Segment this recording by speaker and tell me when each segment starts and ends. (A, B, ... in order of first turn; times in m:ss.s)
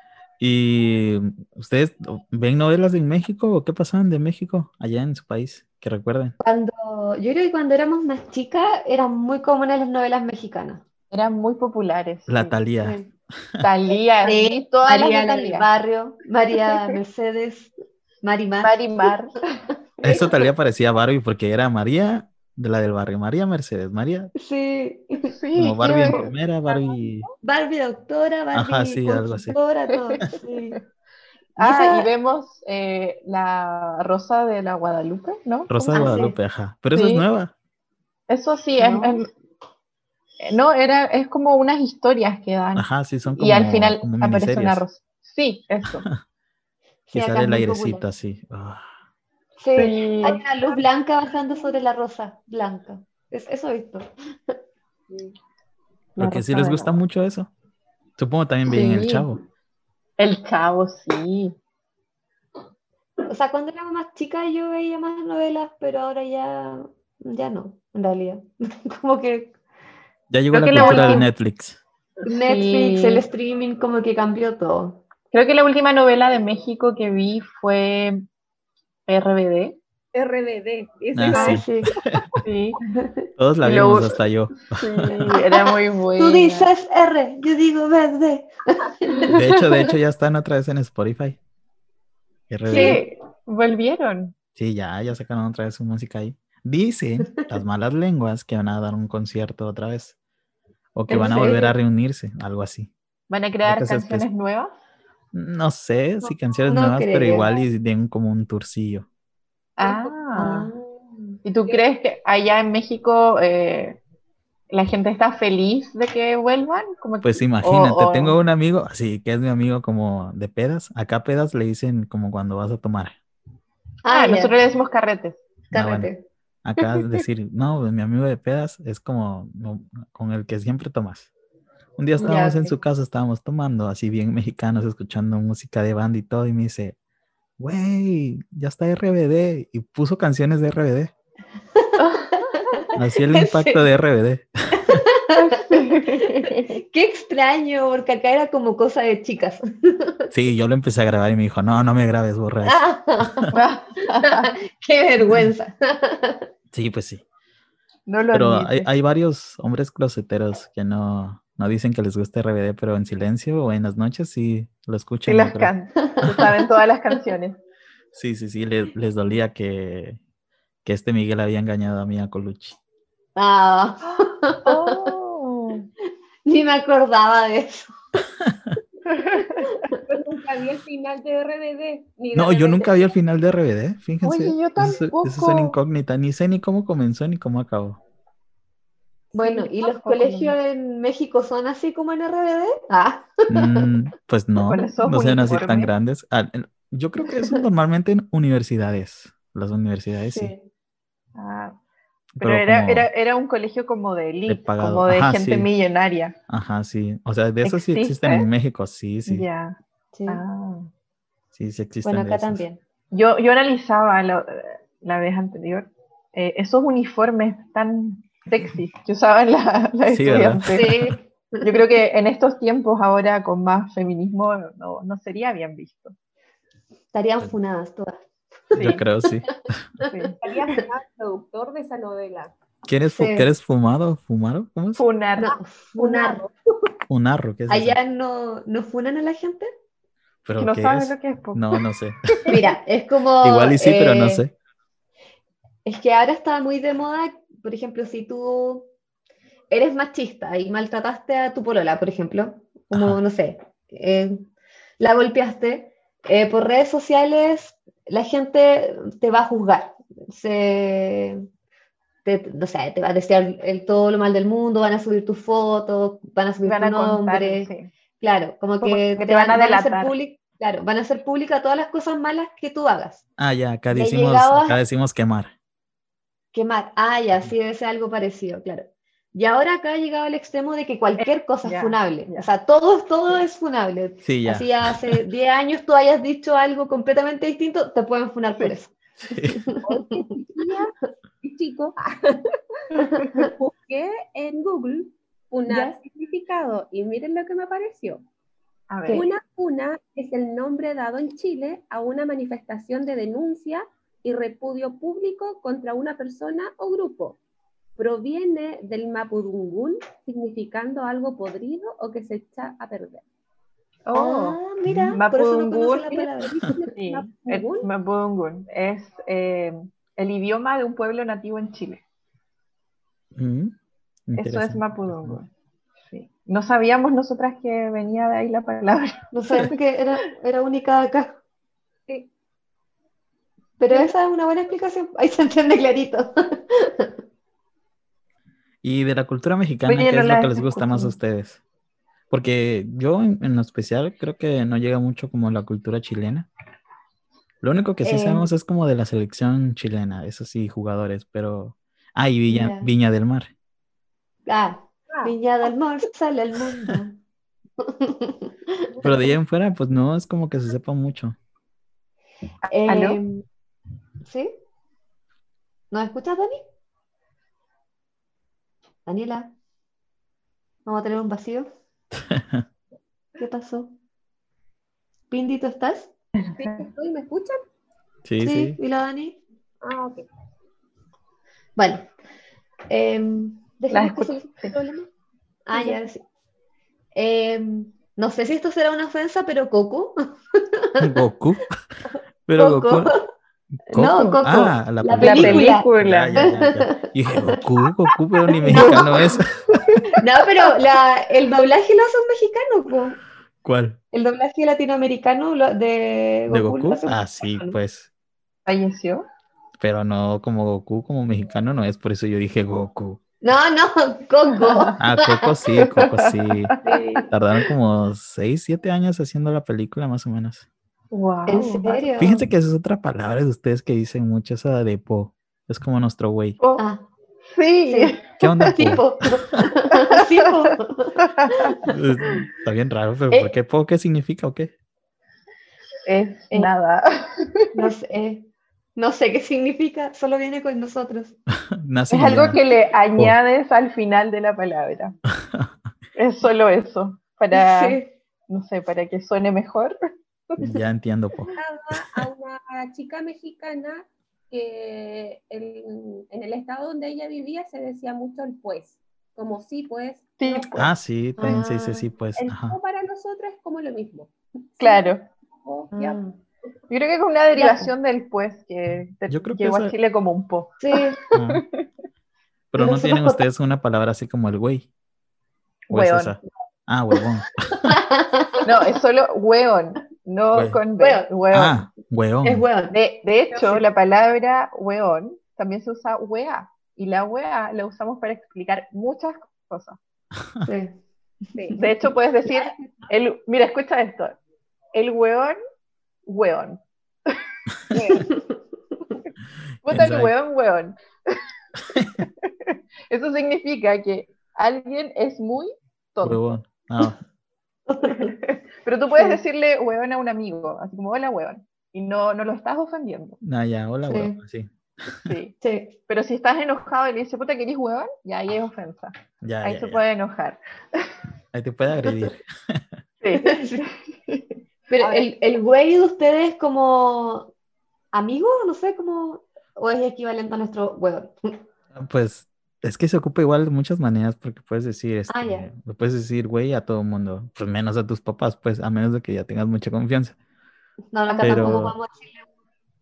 0:00.4-0:06.4 A
0:06.4-0:10.8 B
0:11.1-0:12.6 C
0:12.3-0:13.6 A
0:12.8-0:13.1 B
0:13.6-0:15.7 C
0:14.3-0:19.1 B
0:16.7-0:17.0 C
0:18.6-0:19.6 C
0:20.0-0:24.3 A
0:24.4-0:25.3 B
0:25.2-0:26.3 C
0:25.6-0:27.3 A
0:26.7-0:27.3 D
0:27.4-0:30.8 B
0:28.5-0:29.6 A
0:29.9-0:30.2 C
0:31.6-0:32.1 B
0:31.6-0:36.2 C
0:35.7-0:37.5 A
0:35.9-0:36.4 B
0:36.9-0:37.3 C
0:38.3-0:39.3 C
0:38.8-0:39.2 B
0:40.4-0:46.1 C
0:42.8-0:44.8 A
0:47.1-0:48.0 B
0:47.1-0:48.9 A
0:49.6-0:54.6 B
0:49.8-0:50.4 C
0:56.2-0:56.9 C
0:56.2-0:57.5 A
0:58.2-0:59.4 A
0:58.7-0:59.4 C
0:58.7-0:59.0 B
1:00.2-1:01.6 C
1:03.3-1:09.6 B
1:10.3-1:11.8 A
1:10.5-1:11.3 C
1:10.8-1:11.2 B
1:12.3-1:15.0 B
1:12.3-1:13.3 C
1:15.3-1:18.2 C
1:19.1-1:19.8 C
1:20.1-1:21.7 D
1:21.2-1:22.2 A
1:21.3-1:21.9 B
1:22.4-1:22.8 C
1:23.0-1:23.3 B
1:23.4-1:25.3 A
1:23.6-1:26.7 C
1:25.3-1:29.3 B
1:29.2-1:29.6 C
1:29.3-1:31.4 A
1:32.5-1:33.0 A
1:32.7-1:34.3 C
1:32.7-1:33.0 B
1:34.6-1:40.2 A
1:41.0-1:42.9 A
1:41.1-1:41.7 C
1:41.1-1:41.7 B
1:43.3-1:44.7 C
1:43.6-1:44.3 A
1:45.3-1:49.1 A
1:46.7-1:47.5 B
1:49.8-1:50.7 C
1:49.8-1:50.2 D
1:50.4-1:51.4 B
1:51.4-1:54.0 C
1:54.7-1:58.4 C
1:57.2-2:03.2 A
2:04.0-2:04.5 B
2:04.1-2:05.5 C
2:05.7-2:06.2 B
2:05.7-2:06.1 A
2:06.6-2:11.3 A
2:12.0-2:17.0 A
2:12.2-2:12.8 B
2:17.6-2:21.1 A
2:21.8-2:23.8 B
2:22.0-2:22.4 C
2:23.0-2:25.0 A
2:24.8-2:30.3 B
2:25.4-2:26.8 C
2:30.3-2:33.5 A
2:32.6-2:33.6 B
2:33.5-2:34.5 C
2:34.2-2:36.5 B
2:36.7-2:37.2 A
2:38.1-2:38.9 C
2:38.3-2:45.7 A
2:45.3-2:47.6 C
2:46.1-2:46.5 B
2:48.1-2:50.2 A
2:50.8-2:52.8 A
2:53.4-2:55.1 B
2:54.0-2:55.9 C
2:56.4-2:58.2 B
2:58.5-2:58.8 A
2:59.1-2:59.6 C
3:00.0-3:03.1 D
3:02.3-3:08.0 A
3:04.2-3:05.8 C
3:09.3-3:13.9 B
3:09.4-3:10.6 C
3:13.5-3:20.5 A
3:14.6-3:15.9 C
3:20.2-3:20.6 B
3:21.4-3:21.8 C
3:22.4-3:23.1 A
3:22.4-3:26.4 C
3:24.5-3:25.7 A
3:26.5-3:29.5 A
3:27.6-3:28.5 C
3:29.3-3:29.8 C
3:30.1-3:30.4 B
3:30.3-3:30.9 C
3:31.5-3:32.6 A
3:32.0-3:32.8 B
3:33.1-3:41.0 C
3:40.1-3:41.1 A
3:40.7-3:41.7 B
3:41.6-3:46.1 C
3:47.1-3:48.2 B
3:48.7-3:49.0 C
3:48.7-3:49.4 B
3:48.7-3:49.8 A
3:50.1-3:50.4 C
3:50.4-3:52.5 D
3:52.9-3:55.0 A
3:53.1-3:53.5 B
3:55.0-3:55.5 C
3:55.4-3:56.4 B
3:55.5-3:56.5 D
3:57.1-3:58.0 A
3:57.7-3:59.7 B
4:00.4-4:02.4 A
4:00.6-4:02.6 C
4:02.5-4:04.4 B
4:03.4-4:04.5 A
4:05.8-4:08.9 B
4:09.7-4:14.4 B
4:12.9-4:13.2 A
4:15.0-4:21.4 B
4:22.2-4:27.7 B
4:26.6-4:27.9 C
4:28.2-4:33.2 B
4:28.8-4:30.2 C
4:33.4-4:35.5 A
4:33.9-4:34.8 B
4:36.5-4:50.2 B
4:41.2-4:42.5 C
4:44.2-4:45.0 A
4:49.2-4:49.6 A
4:49.8-4:52.6 D
4:53.2-4:53.5 B
4:53.4-4:58.2 D
4:55.7-4:56.0 B
4:58.9-4:59.2 C
4:59.1-5:07.4 D
5:08.0-5:13.2 D
5:14.1-5:14.6 C
5:14.1-5:16.8 B
5:14.8-5:15.2 A
5:15.1-5:16.2 C
5:16.1-5:17.9 D
5:17.0-5:22.0 C
5:23.4-5:23.8 A
5:24.3-5:25.4 A
5:24.4-5:25.5 C
5:26.1-5:29.7 C
5:29.3-5:31.4 B
5:33.8-5:37.1 B
5:38.8-5:41.6 A
5:39.9-5:41.1 C
5:42.3-5:46.5 A
5:47.6-5:53.5 A
5:48.0-5:48.5 B
5:52.5-5:52.9 B
5:54.5-5:57.2 B
5:55.1-5:55.4 D
5:57.8-5:58.9 B
5:59.0-6:01.4 A
6:02.7-6:03.4 B
6:02.8-6:03.2 C
6:04.2-6:04.5 B
6:05.9-6:06.6 B
6:09.1-6:09.5 B
6:10.9-6:11.7 B
6:12.3-6:12.6 A
6:13.4-6:13.9 B
6:15.3-6:16.1 B
6:16.4-6:16.9 C
6:16.6-6:17.6 D
6:18.2-6:18.8 A
6:18.4-6:19.4 B
6:19.8-6:20.3 D
6:21.8-6:22.1 B
6:22.9-6:25.1 B
6:23.9-6:24.8 C
6:25.7-6:26.2 B
6:27.2-6:31.2 B
6:31.0-6:31.8 A
6:32.5-6:33.1 A
6:32.6-6:33.2 B
6:33.9-6:39.8 A
6:33.9-6:37.6 B
6:35.2-6:36.4 C
6:38.6-6:39.3 B
6:38.7-6:39.4 C
6:40.2-6:43.2 B
6:43.6-6:44.0 A
6:44.1-6:47.8 B
6:46.5-6:48.1 A
6:48.7-6:49.2 C
6:49.8-6:53.2 A
6:53.4-6:55.6 B
6:54.6-6:54.9 C
6:55.0-6:56.7 A
6:55.9-6:57.0 C
6:56.8-6:57.3 B
6:57.3-7:00.7 A
7:01.1-7:02.1 C
7:01.5-7:02.4 B
7:02.2-7:06.6 A
7:06.6-7:06.8 C
7:06.8-7:07.0 B
7:07.5-7:08.4 C
7:07.9-7:11.9 B
7:08.4-7:09.6 A
7:09.9-7:10.7 C
7:11.2-7:11.8 C
7:11.9-7:14.7 A
7:16.0-7:17.7 C
7:17.7-7:21.4 B
7:21.8-7:22.6 A
7:22.1-7:25.2 C
7:25.4-7:25.7 A
7:26.2-7:28.0 C
7:27.5-7:28.1 B
7:28.5-7:30.0 C
7:30.6-7:31.5 A
7:31.6-7:40.7 D
7:40.4-7:40.9 C
7:40.8-7:42.8 A
7:41.4-7:42.0 B
7:42.4-7:46.2 D
7:44.8-7:45.2 C
7:45.9-7:46.4 B
7:46.9-7:51.8 C
7:47.6-7:47.9 B
7:49.3-7:50.0 A
7:50.8-7:51.2 B
7:51.3-7:51.6 A
7:52.7-7:54.9 A
7:52.8-7:53.4 B
7:55.9-7:56.4 C
7:55.9-7:58.0 A
7:57.8-7:58.7 B
7:58.6-8:01.8 C
8:00.5-8:00.8 A
8:01.0-8:01.3 B
8:01.5-8:02.7 A
8:02.4-8:03.0 B
8:02.9-8:10.0 C
8:10.4-8:10.7 A
8:10.6-8:11.0 B
8:11.6-8:11.8 D
8:11.8-8:14.4 C
8:12.6-8:12.8 B
8:14.9-8:15.6 C
8:16.3-8:17.4 C
8:17.9-8:18.3 C
8:18.2-8:18.4 B
8:19.8-8:21.4 C
8:19.9-8:20.3 A
8:21.9-8:22.2 A
8:22.2-8:26.5 C
8:26.2-8:27.2 A
8:27.9-8:28.4 B
8:28.1-8:33.4 C
8:33.4-8:35.4 A
8:34.1-8:34.4 B
8:35.2-8:35.6 C
8:35.6-8:36.0 B
8:36.1-8:41.1 C
8:39.4-8:40.0 A
8:41.5-8:42.9 A
8:43.2-8:44.4 C
8:43.4-8:43.9 B
8:44.9-8:47.5 B
8:48.1-8:51.6 B
8:51.9-9:00.4 A
8:55.3-8:55.7 B
9:01.1-9:02.4 B
9:01.4-9:01.7 C
9:01.4-9:02.0 A